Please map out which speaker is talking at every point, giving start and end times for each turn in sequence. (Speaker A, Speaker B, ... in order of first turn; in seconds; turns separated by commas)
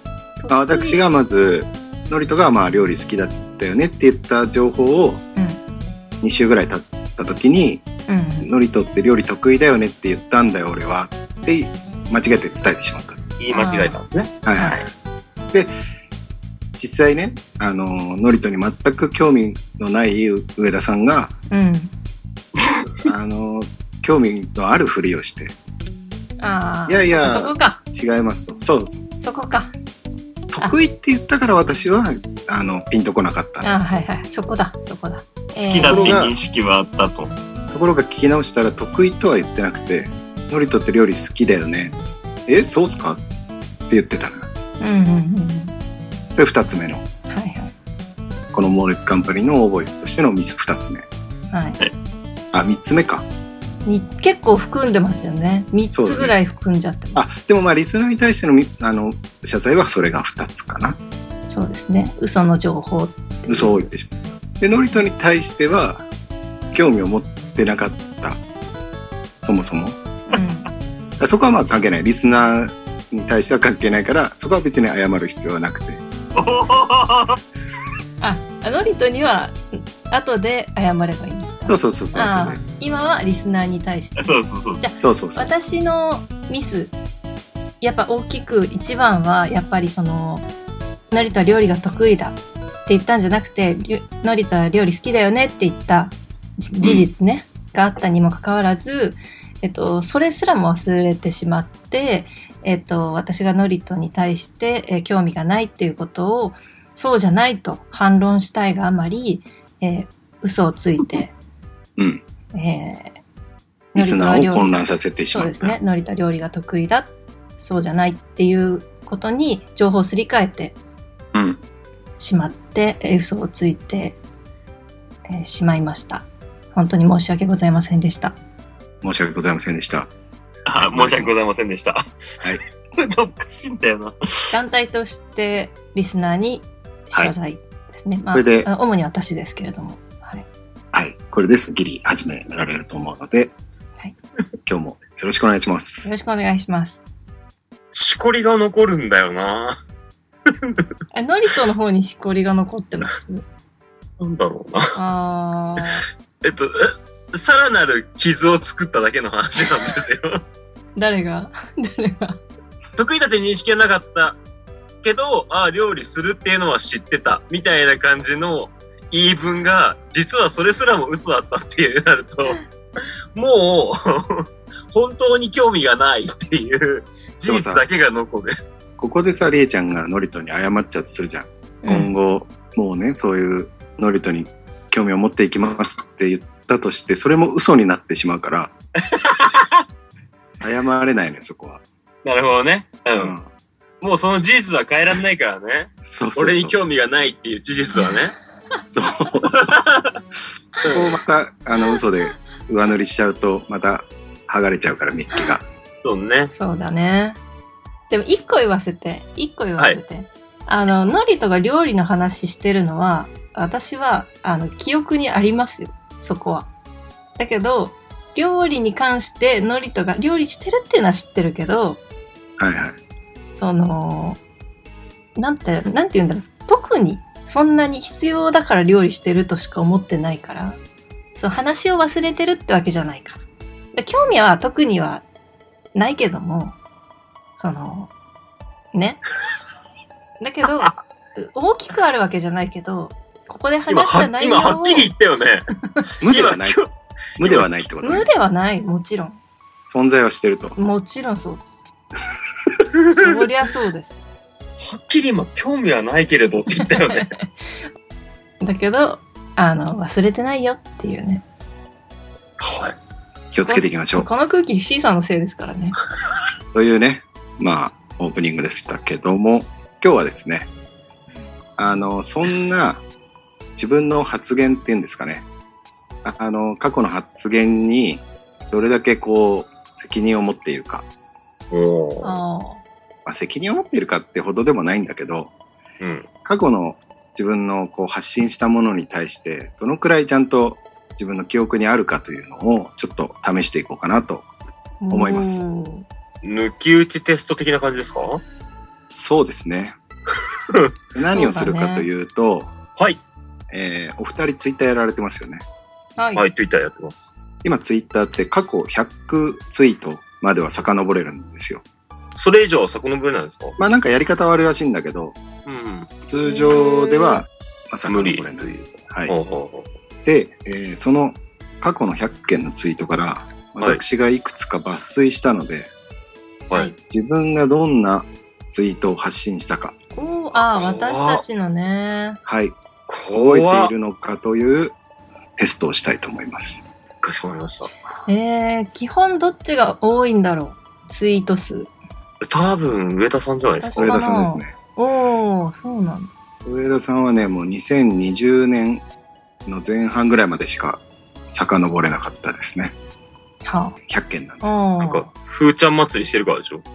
Speaker A: 0.4-1.0, Speaker B: 0.5-5.2, Speaker B: 6.2-7.8, Speaker A: 8.1-8.5, Speaker B: 8.4-13.2, Speaker C: 13.4-14.8, Speaker A: 13.5-14.0, Speaker B: 14.5-14.8, Speaker A: 14.6-14.8, Speaker B: 16.8-21.3, Speaker A: 21.5-21.9, Speaker B: 23.0-25.6, Speaker A: 26.4-27.8, Speaker B: 26.9-29.2, Speaker A: 29.2-29.7, Speaker B: 30.5-33.9, Speaker A: 33.6-36.2, Speaker C: 35.6-37.3, Speaker B: 35.8-36.4, Speaker B: 37.7-41.9, Speaker B: 42.5-43.2, Speaker B: 43.9-44.5, Speaker A: 44.8-45.7, Speaker B: 46.4-47.0, Speaker A: 47.3-47.7, Speaker B: 48.5-51.1, Speaker A: 51.5-51.8, Speaker B: 52.5-53.3, Speaker A: 53.9-57.3, Speaker B: 55.9-56.4, Speaker B: 57.2-61.0, Speaker A: 61.5-63.9, Speaker B: 63.5-66.0, Speaker B: 66.7-68.4, Speaker B: 69.4-70.0, Speaker A: 70.3-70.7, Speaker B: 71.2-76.0, Speaker C: 76.3-77.4, Speaker A: 78.2-86.9, Speaker B: 81.7-82.6, Speaker C: 84.2-84.8, Speaker B: 85.0-85.5, Speaker A: 87.8-90.5, Speaker A: 91.1-111.3, Speaker B: 112.0-112.2, Speaker A: 112.5-113.2, Speaker A: 113.9-120.8, Speaker B: 114.0-115.8, Speaker B: 121.3-121.6, Speaker A: 122.2-124.2, Speaker A: 125.3-128.4, Speaker B: 129.0-130.1, Speaker C: 130.7-134.6, Speaker B: 130.8-131.3, Speaker A: 134.5-140.4, Speaker B: 138.3-138.7, Speaker B: 140.9-143.5, Speaker B: 144.7-146.1, Speaker A: 146.0-147.0, Speaker C: 147.9-149.8, Speaker C: 150.5-150.8, Speaker A: 151.1-153.4, Speaker C: 154.2-155.0, Speaker A: 154.9-156.1, Speaker C: 156.4-160.4, Speaker A: 161.0-162.4, Speaker C: 163.0-164.4, Speaker C: 165.0-172.6, Speaker C: 173.3-178.6, Speaker B: 177.5-177.8, Speaker B: 179.0-188.7, Speaker A: 181.8-182.1, Speaker C: 189.0-189.7, Speaker B: 190.6-191.8, Speaker C: 192.2-193.3, Speaker B: 193.2-193.5, Speaker C: 194.0-198.4, Speaker B: 196.1-196.8, Speaker B: 198.9-199.5, Speaker C: 199.4-200.1, Speaker B: 200.9-205.6, Speaker C: 206.0-206.5, Speaker A: 206.5-207.4, Speaker A: 208.1-216.7, Speaker A: 217.4-222.0, Speaker B: 222.6-223.0, Speaker A: 223.5-224.4, Speaker A: 225.4-230.8, Speaker A: 231.4-233.4, Speaker A: 233.9-235.2, Speaker A: 236.0-236.8, Speaker A: 237.6-238.1, Speaker A: 238.9-239.2, Speaker A: 240.4-245.1, Speaker C: 243.9-245.7, Speaker B: 246.2-246.8, Speaker C: 246.3-246.9, Speaker B: 247.4-248.3, Speaker C: 247.4-247.7, Speaker A: 248.0-249.4, Speaker B: 249.9-250.8, Speaker A: 250.6-251.8, Speaker C: 252.9-253.4, Speaker A: 253.1-254.2, Speaker C: 254.8-257.3, Speaker A: 256.8-257.5, Speaker A: 258.6-261.4, Speaker C: 262.6-263.0, Speaker B: 263.5-264.3, Speaker A: 263.6-266.0, Speaker B: 266.7-270.7, Speaker B: 271.8-273.0, Speaker B: 273.8-275.4, Speaker B: 276.2-281.1, Speaker C: 281.7-282.4, Speaker A: 282.2-282.8, Speaker B: 283.3-285.5, Speaker C: 286.0-286.3, Speaker B: 286.4-294.5, Speaker A: 295.0-296.1, Speaker B: 295.1-295.6, Speaker C: 296.4-298.4, Speaker B: 299.1-300.0, Speaker B: 301.1-302.7, Speaker A: 301.3-302.1, Speaker B: 303.7-305.6, Speaker A: 306.2-306.4, Speaker C: 306.4-307.2, Speaker B: 307.6-311.8, Speaker C: 312.4-313.8, Speaker B: 313.8-315.4, Speaker C: 315.7-316.1, Speaker B: 316.2-319.3, Speaker A: 316.4-317.4, Speaker C: 318.1-318.7, Speaker C: 319.3-319.9, Speaker B: 320.2-325.9, Speaker A: 326.7-327.0, Speaker B: 327.1-329.9, Speaker A: 330.1-332.4, Speaker C: 330.6-331.4, Speaker B: 332.5-332.8, Speaker C: 333.1-333.9, Speaker B: 333.3-334.9, Speaker B: 335.6-336.8, Speaker C: 337.2-337.9, Speaker A: 338.3-341.9, Speaker C: 342.4-344.1, Speaker A: 343.8-346.3, Speaker B: 344.0-344.7, Speaker B: 346.6-349.0, Speaker B: 349.7-351.0, Speaker B: 351.5-352.9, Speaker A: 353.6-354.0, Speaker B: 354.1-354.6, Speaker A: 354.6-355.3, Speaker C: 355.0-356.8